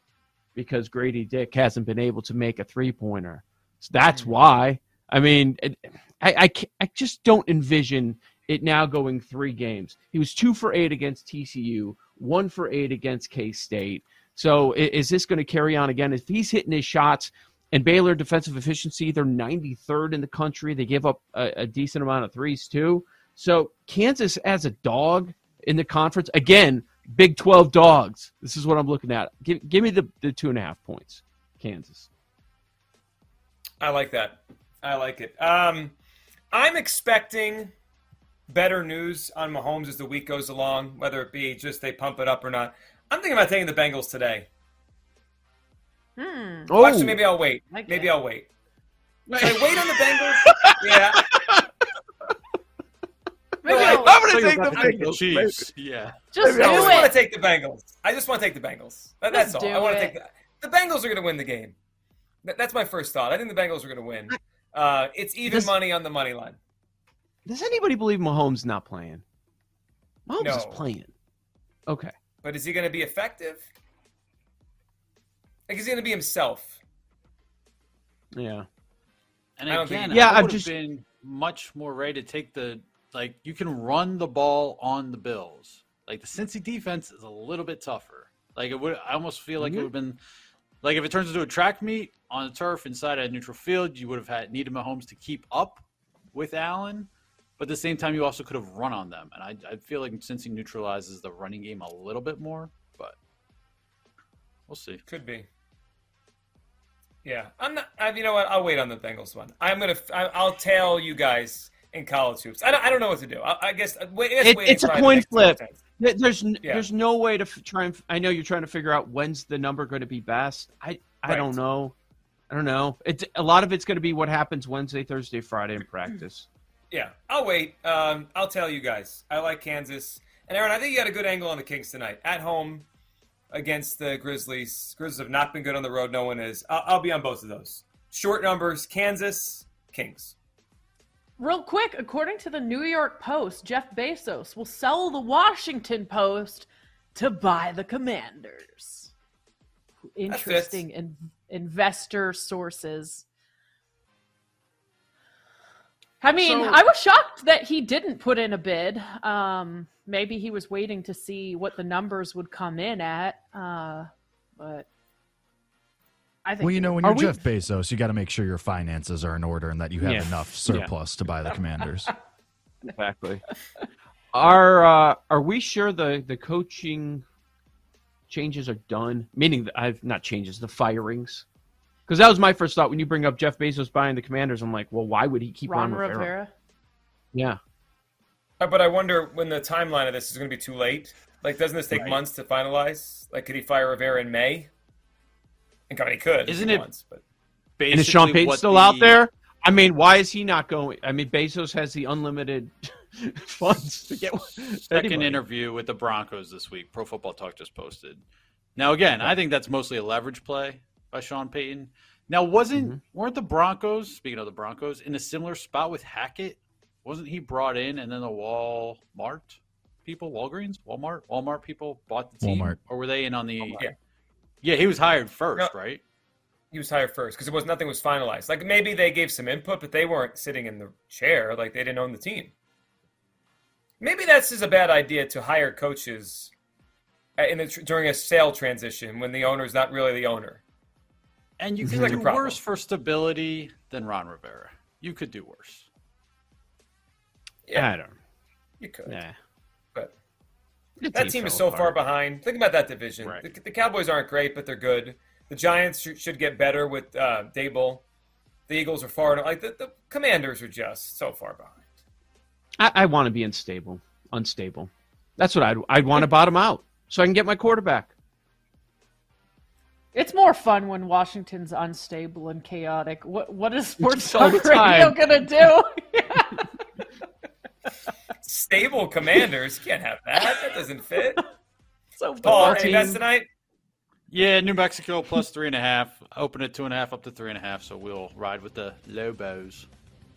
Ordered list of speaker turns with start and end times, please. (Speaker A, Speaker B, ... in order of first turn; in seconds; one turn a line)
Speaker A: 0.6-32.1
Speaker B: 4.1-4.4
Speaker B: 33.8-35.9
Speaker B: 36.5-37.7
Speaker B: 38.5-44.5
Speaker C: 46.2-46.7
Speaker A: 46.7-47.4
Speaker B: 46.8-48.5
Speaker C: 47.7-48.1
Speaker A: 49.3-51.6
Speaker B: 49.4-51.3
Speaker C: 53.6-54.2
Speaker B: 53.6-54.2
Speaker A: 53.7-55.7
Speaker D: 54.1-57.0
Speaker C: 56.3-57.1
Speaker A: 56.4-56.9
Speaker B: 56.5-61.7
Speaker C: 59.3-60.1
Speaker B: 62.4-66.6
Speaker A: 65.4-65.7
Speaker A: 67.5-69.2
Speaker A: 70.3-71.1
Speaker B: 70.4-70.8
Speaker A: 71.9-72.1
Speaker B: 72.4-73.6
Speaker B: 75.7-76.7
Speaker A: 78.3-78.7
Speaker D: 79.6-90.2
Speaker B: 79.7-80.2
Speaker A: 80.1-80.7
Speaker A: 89.6-89.9
Speaker D: 90.8-95.8
Speaker D: 96.3-103.1
Speaker D: 104.7-105.0
Speaker B: 105.0-105.5
Speaker B: 107.2-115.8
Speaker A: 114.4-121.9
Speaker B: 121.3-121.6
Speaker A: 122.5-126.5
Speaker B: 126.9-132.8
Speaker B: 133.5-140.3
Speaker C: 141.4-149.1
Speaker C: 150.1-153.2
Speaker B: 150.3-150.8
Speaker C: 156.2-164.9
Speaker A: 156.4-156.7
Speaker C: 166.4-167.4
Speaker E: 166.6-172.1
Speaker A: 170.0-170.9
Speaker A: 172.9-173.4
Speaker A: 174.3-177.2
Speaker A: 178.3-181.4
Speaker A: 182.1-186.3
Speaker C: 185.7-186.5
Speaker A: 187.3-187.6
Speaker B: 188.6-194.7
Speaker D: 191.9-192.2
Speaker B: 195.9-197.2
Speaker D: 196.5-196.8
Speaker D: 197.8-199.2
Speaker A: 197.9-205.4
Speaker D: 204.9-208.2
Speaker D: 208.8-223.8
Speaker A: 212.7-213.0
Speaker E: 222.4-222.8
Speaker B: 223.7-223.9
Speaker D: 224.6-226.0
Speaker B: 226.7-232.5
Speaker B: 234.0-236.5
Speaker B: 237.4-240.6
Speaker D: 241.6-245.9
Speaker A: 241.8-242.1
Speaker B: 241.9-242.6
Speaker A: 247.7-248.2
Speaker B: 248.8-249.2
Speaker A: 249.1-249.3
Speaker A: 251.0-252.0
Speaker B: 251.1-258.0
Speaker B: 258.7-261.8
Speaker A: 262.8-268.1
Speaker C: 270.1-276.7
Speaker A: 274.0-275.2
Speaker B: 278.4-281.4
Speaker C: 282.1-283.1
Speaker A: 282.4-283.2
Speaker B: 282.4-283.4
Speaker D: 284.3-289.9